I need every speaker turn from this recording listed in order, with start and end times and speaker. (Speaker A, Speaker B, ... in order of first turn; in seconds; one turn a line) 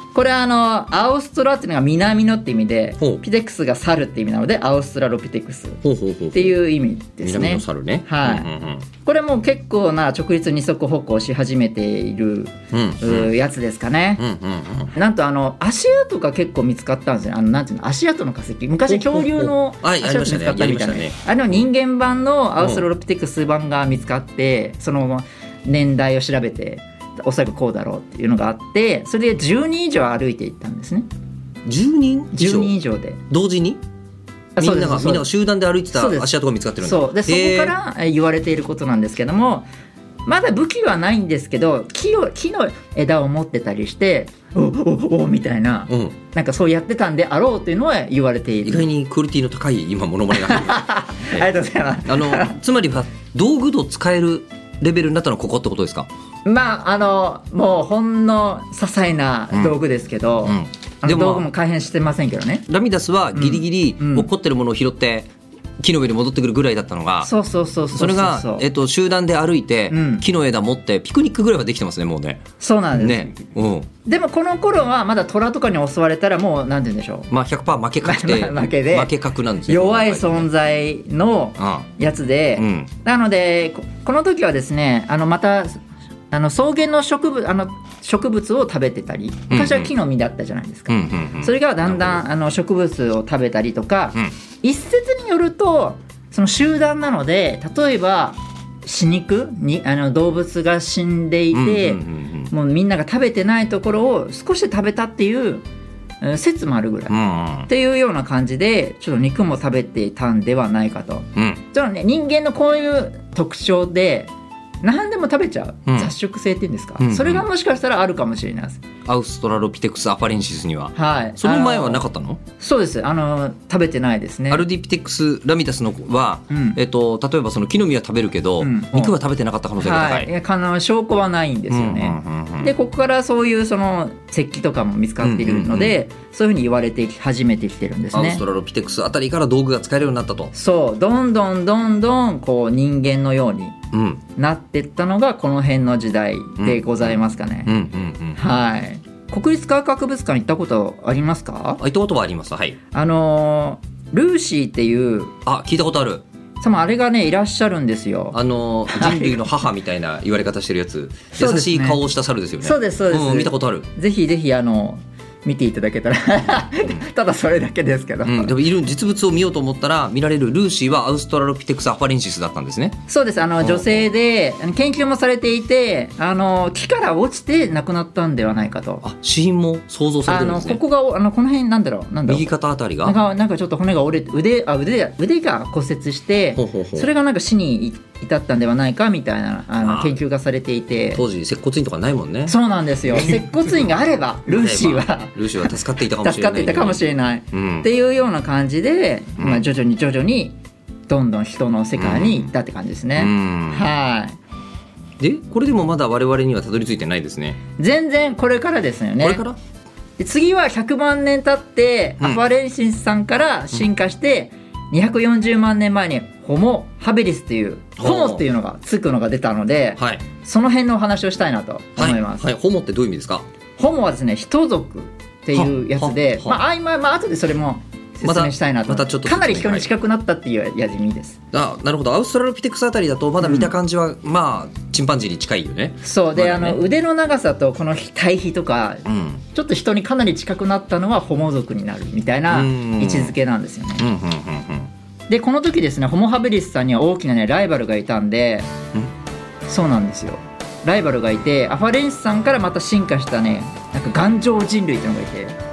Speaker A: 0.1-5.8
Speaker B: 5.8-6.6
Speaker A: 6.3-8.5
Speaker B: 7.2-8.9
Speaker A: 9.0-14.2
Speaker B: 12.7-13.3
Speaker B: 14.2-14.9
Speaker A: 14.9-31.1
Speaker B: 18.9-21.6
Speaker B: 22.6-22.8
Speaker B: 31.6-32.7
Speaker A: 32.3-33.2
Speaker B: 33.3-33.8
Speaker A: 34.5-35.2
Speaker B: 34.6-37.7
Speaker A: 35.9-39.7
Speaker A: 40.2-48.9
Speaker B: 45.9-46.1
Speaker B: 48.6-51.5
Speaker A: 50.3-52.5
Speaker B: 52.0-56.1
Speaker A: 56.4-62.6
Speaker B: 60.4-61.5
Speaker B: 62.7-67.3
Speaker A: 63.3-64.3
Speaker A: 67.2-68.7
Speaker B: 67.9-72.4
Speaker A: 69.9-70.2
Speaker A: 72.6-73.4
Speaker B: 73.0-73.9
Speaker A: 74.0-77.3
Speaker B: 77.3-80.5
Speaker A: 78.0-79.1
Speaker A: 79.7-105.6
Speaker B: 81.6-81.9
Speaker B: 82.6-82.9
Speaker B: 89.5-89.9
Speaker B: 90.9-92.2
Speaker B: 101.5-102.5
Speaker A: 106.2-107.1
Speaker B: 107.1-107.7
Speaker A: 107.7-114.3
Speaker B: 111.3-111.6
Speaker A: 114.8-118.8
Speaker B: 115.9-116.1
Speaker B: 117.0-117.5
Speaker B: 119.0-122.4
Speaker A: 121.0-122.0
Speaker A: 122.6-124.6
Speaker B: 124.5-130.3
Speaker A: 126.5-126.8
Speaker A: 128.6-129.1
Speaker A: 129.8-138.4
Speaker B: 131.7-132.7
Speaker B: 135.2-135.9
Speaker B: 138.1-140.5
Speaker A: 140.5-143.8
Speaker B: 143.9-144.2
Speaker A: 144.4-147.7
Speaker B: 146.6-148.4
Speaker A: 148.3-151.8
Speaker B: 151.8-152.8
Speaker A: 152.9-155.3
Speaker B: 155.4-156.2
Speaker A: 156.6-158.4
Speaker B: 158.3-163.9
Speaker A: 158.9-159.4
Speaker A: 161.3-162.0
Speaker A: 162.6-168.5
Speaker B: 168.2-173.0
Speaker A: 173.1-179.0
Speaker B: 173.6-174.1
Speaker B: 179.0-180.8
Speaker A: 180.2-182.5
Speaker B: 182.3-183.2
Speaker A: 183.0-191.2
Speaker B: 186.6-187.1
Speaker B: 189.8-190.2
Speaker B: 191.1-192.6
Speaker A: 192.5-195.4
Speaker B: 193.1-193.4
Speaker B: 194.5-197.9
Speaker A: 196.2-200.6
Speaker B: 199.4-199.6
Speaker A: 201.1-204.3
Speaker B: 201.9-202.5
Speaker B: 203.2-203.9
Speaker B: 205.2-207.6
Speaker A: 207.8-209.4
Speaker B: 209.2-209.6
Speaker A: 210.2-222.4
Speaker B: 218.0-218.4
Speaker B: 220.0-220.2
Speaker B: 222.0-223.4
Speaker A: 223.8-231.4
Speaker B: 225.5-226.6
Speaker B: 228.2-229.9
Speaker B: 231.5-236.8
Speaker A: 233.4-233.7
Speaker A: 236.0-244.1
Speaker B: 239.1-239.4
Speaker B: 242.5-243.3
Speaker B: 244.0-244.9
Speaker A: 245.3-248.7
Speaker A: 249.7-255.6